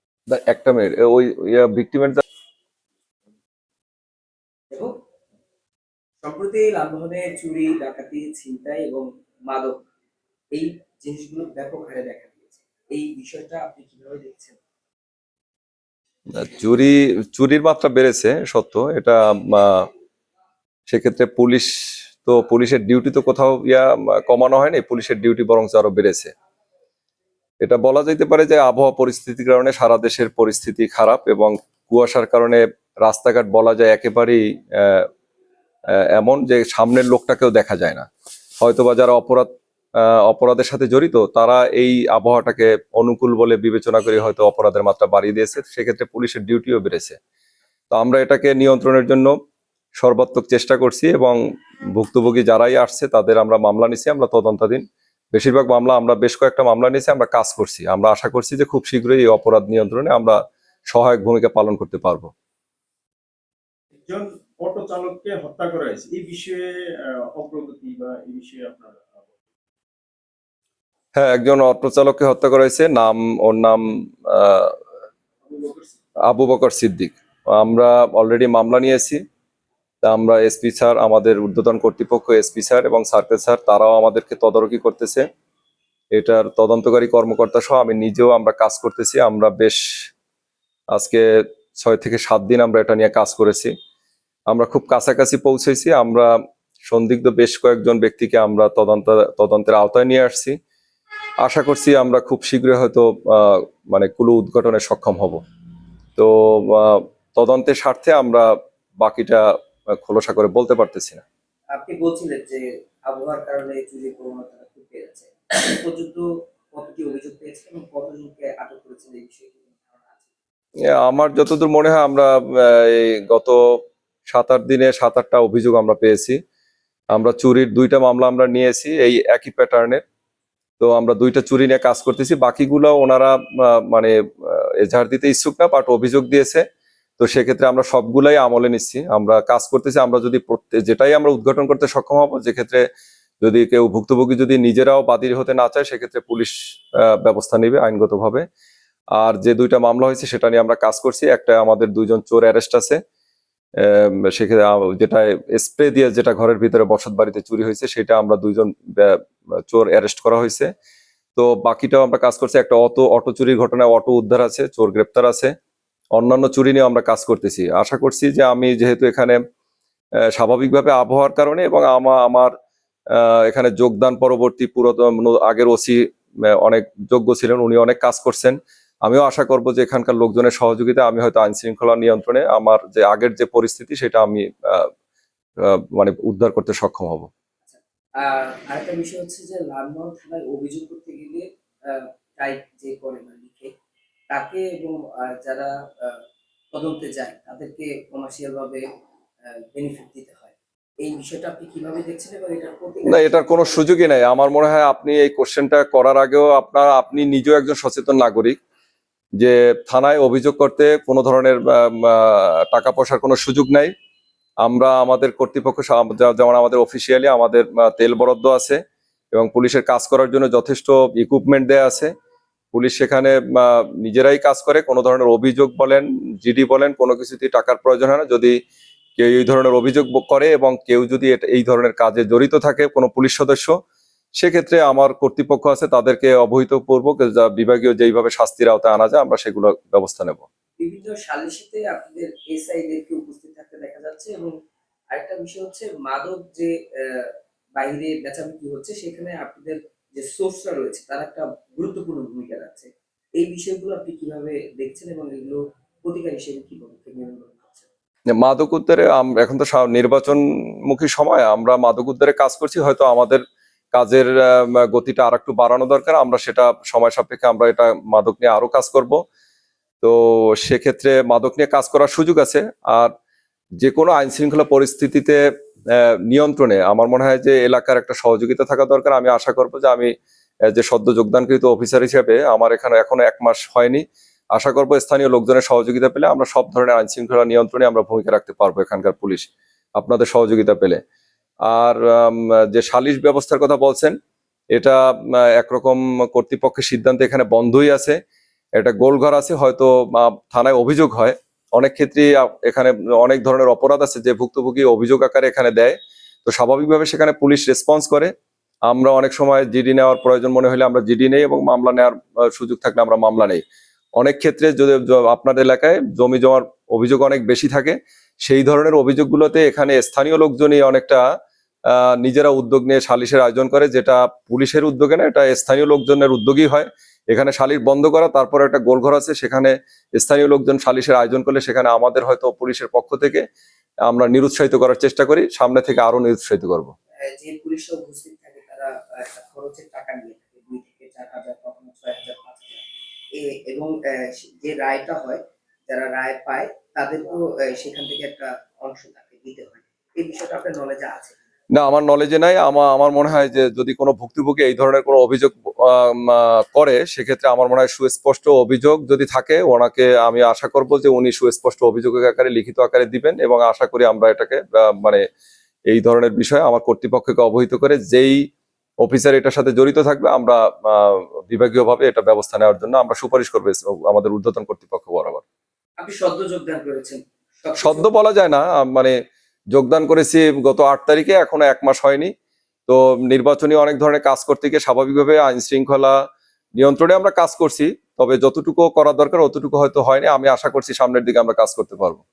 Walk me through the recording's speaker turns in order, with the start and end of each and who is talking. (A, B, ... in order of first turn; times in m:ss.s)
0:00.3-0:02.2 A
0:04.7-0:05.0 B
0:06.2-0:09.8 B
0:10.5-0:14.6 B
0:16.4-0:19.9 A
0:20.9-0:21.7 A
0:22.2-0:26.3 A
0:27.6-0:35.1 A
0:35.9-0:38.0 A
0:38.6-0:47.2 A
0:47.9-0:49.3 A
0:50.0-0:51.4 A
0:51.9-1:00.4 A
1:00.9-1:02.3 A
1:04.0-1:09.4 C
1:11.1-1:14.8 A
1:15.4-1:16.0 C
1:16.2-1:19.2 A
1:20.0-1:25.2 A
1:26.1-1:29.8 A
1:30.9-1:33.7 A
1:34.5-1:36.3 A
1:36.8-1:40.6 A
1:41.4-1:45.4 A
1:46.2-1:51.2 A
1:51.7-2:00.3 B
2:00.8-2:03.6 A
2:04.3-2:06.4 A
2:07.1-2:10.0 A
2:10.8-2:16.6 A
2:17.2-2:22.8 A
2:23.4-2:28.4 A
2:29.2-2:33.0 A
2:33.8-2:40.7 A
2:41.4-2:45.5 A
2:46.1-2:49.4 A
2:50.3-2:52.5 A
2:53.1-3:04.9 A
3:05.6-3:07.3 A
3:07.6-3:13.7 B
3:14.3-3:16.2 B
3:16.7-3:18.8 B
3:19.7-3:24.1 B
3:23.0-3:28.6 A
3:29.4-3:33.9 A
3:34.6-3:38.8 A
3:39.3-3:42.1 A
3:42.7-3:48.6 A
3:49.2-3:53.8 A
3:54.4-4:00.4 A
4:00.8-4:04.5 B
4:05.1-4:17.9 B
4:18.3-4:23.4 A
4:23.9-4:29.2 A
4:30.0-4:33.1 A
4:33.8-4:40.1 A
4:40.6-4:51.0 A
4:51.6-4:54.1 A
4:54.7-4:58.2 A
4:58.8-5:08.3 A
5:08.9-5:13.6 A
5:14.2-5:21.2 A
5:21.9-5:33.4 A
5:34.0-5:36.9 A
5:37.2-5:51.4 B
5:51.7-6:05.2 A
6:05.9-6:08.4 A
6:09.0-6:15.4 A
6:16.0-6:18.1 B
6:17.8-6:19.2 A
6:19.7-6:22.3 A
6:22.9-6:26.2 A
6:26.8-6:32.2 A